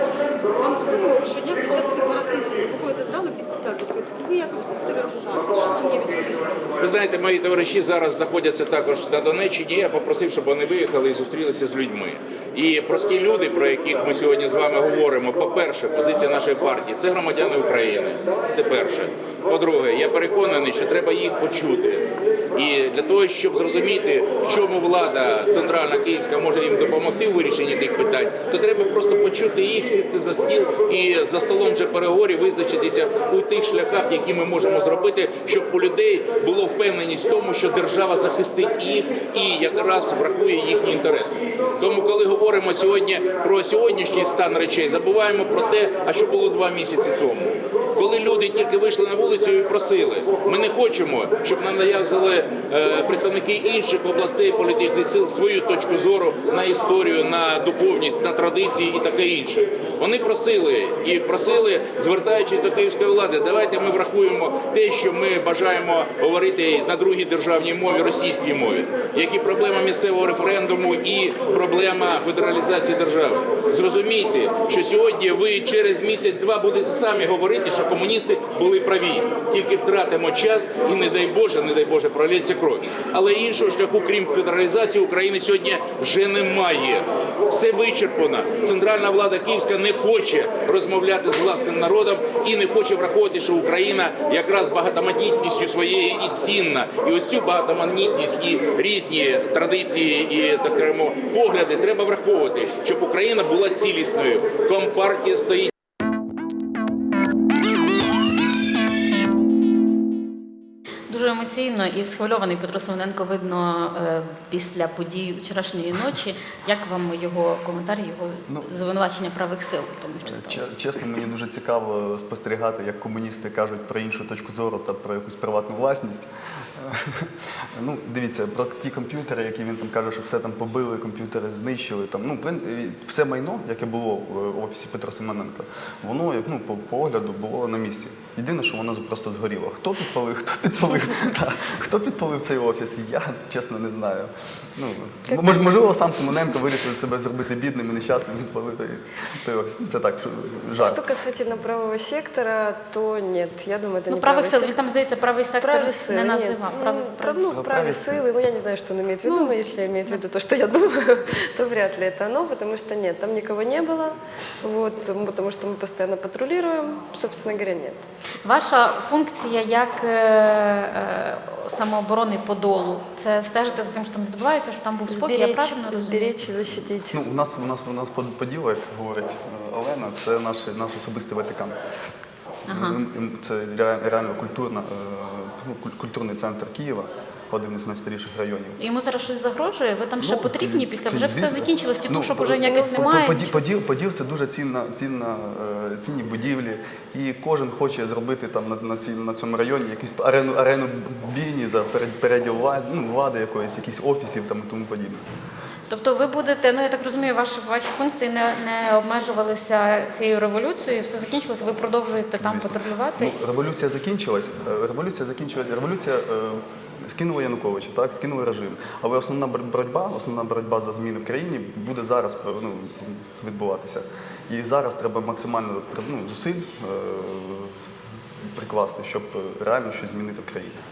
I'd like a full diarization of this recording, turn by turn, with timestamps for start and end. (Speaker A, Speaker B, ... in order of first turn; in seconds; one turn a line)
Speaker A: 0.6-6.5
Speaker B: 6.8-105.7
Speaker C: 111.1-120.8
Speaker D: 118.5-118.7
Speaker D: 120.2-151.0
Speaker C: 145.3-145.8
Speaker E: 150.8-154.7
Speaker C: 154.1-157.5
Speaker E: 155.6-168.0
Speaker D: 157.4-158.2
Speaker C: 159.2-160.2
Speaker C: 168.4-176.3
Speaker E: 175.1-177.2
Speaker D: 176.4-181.8
Speaker C: 182.7-183.0
Speaker D: 182.7-188.8
Speaker C: 188.8-193.6
Speaker D: 190.2-205.2
Speaker C: 205.9-213.3
Speaker D: 212.4-227.8
Speaker D: 228.4-230.8